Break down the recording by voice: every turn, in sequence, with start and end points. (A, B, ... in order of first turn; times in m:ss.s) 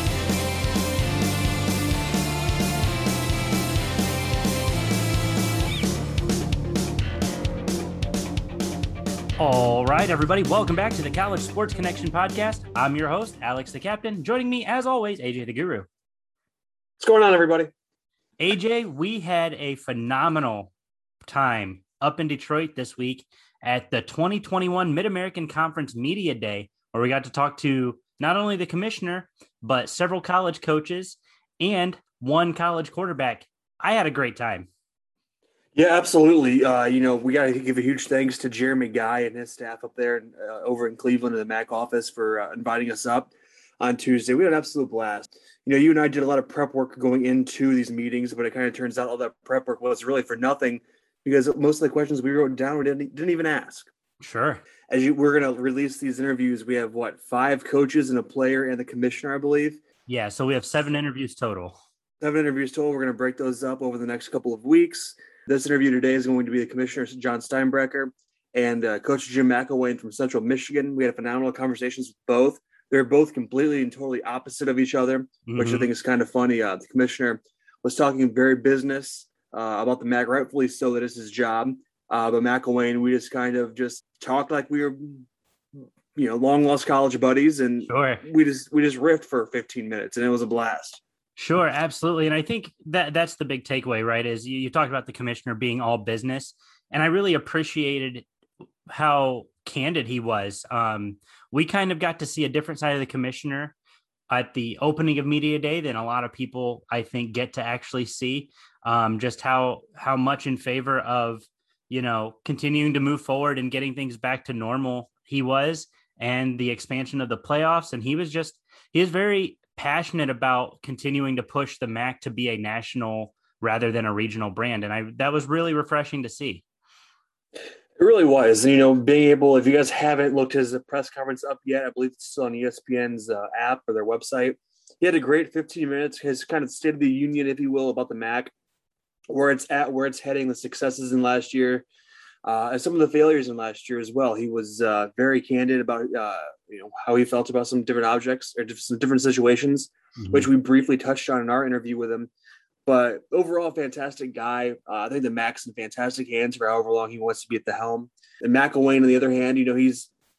0:09.4-0:15.9 A
0:17.0-0:17.7 B
0:18.4-0:20.7 A
0:21.2-0:34.7 A
0:35.7-0:53.9 B
0:54.2-0:54.6 A
0:54.9-0:59.8 B
1:00.1-1:01.8 A
1:02.2-1:25.2 B
1:15.5-1:15.9 A
1:26.1-1:31.0 B
1:27.8-1:28.2 A
1:31.4-1:38.2 A
1:38.9-1:43.7 A
1:44.3-2:06.6 A
2:08.0-2:18.5 B
2:19.3-2:21.8 B
2:22.4-2:32.3 B
2:30.2-2:30.4 A
2:32.8-2:40.1 B